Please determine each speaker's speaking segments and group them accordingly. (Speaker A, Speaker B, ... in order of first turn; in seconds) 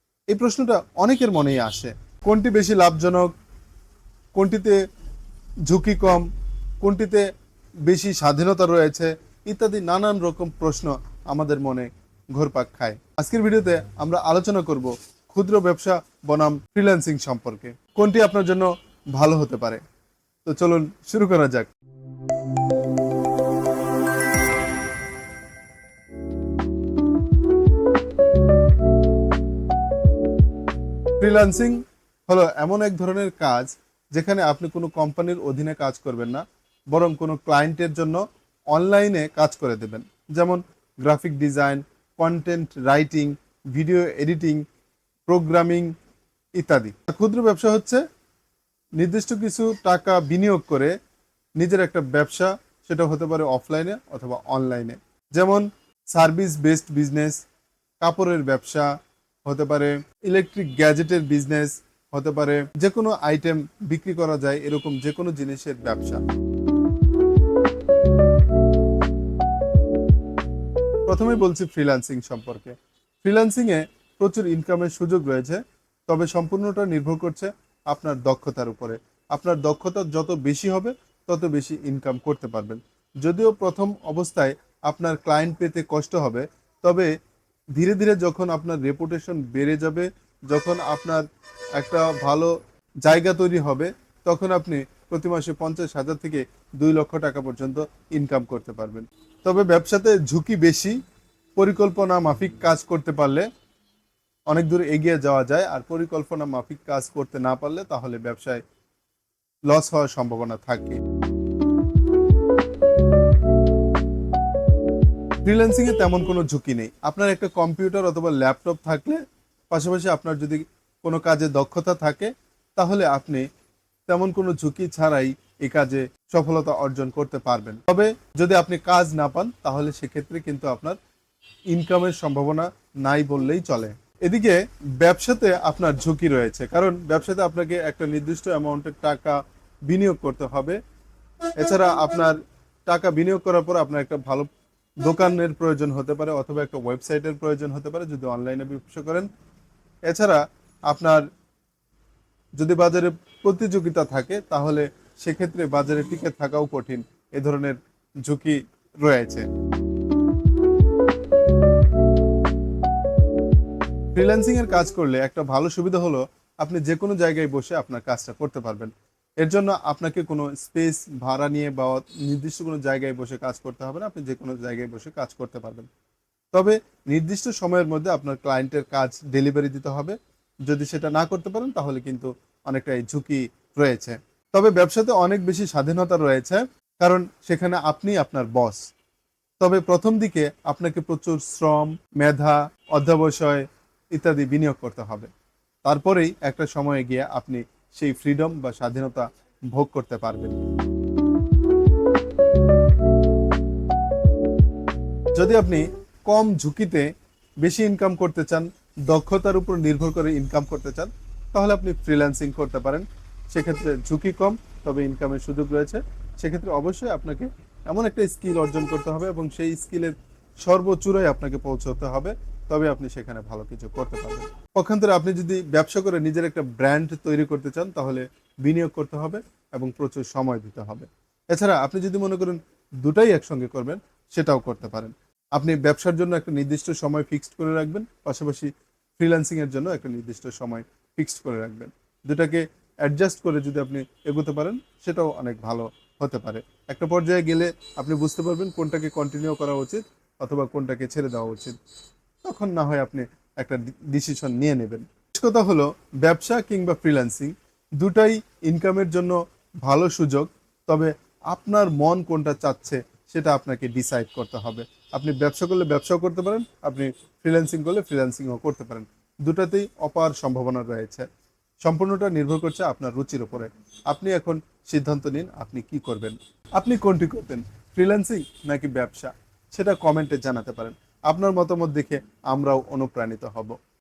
Speaker A: 0.3-3.3, 4.3-4.8, 5.7-6.3, 6.8-7.3, 7.8-19.8, 20.4-21.7, 31.2-44.6, 45.3-45.9, 46.6-48.0, 49.0-51.0, 51.6-57.4, 58.0-58.9, 59.5-66.2, 71.1-87.1, 87.8-101.0, 101.6-103.5, 104.5-108.6, 109.7-111.0, 115.4-123.5, 124.1-131.0, 131.7-140.8, 141.6-144.5, 145.0-149.3, 150.1-151.3, 152.6-159.5, 164.1-175.9, 176.5-188.8, 189.6-195.3, 195.8-200.6, 205.3-251.8, 252.4-271.3, 271.8-283.8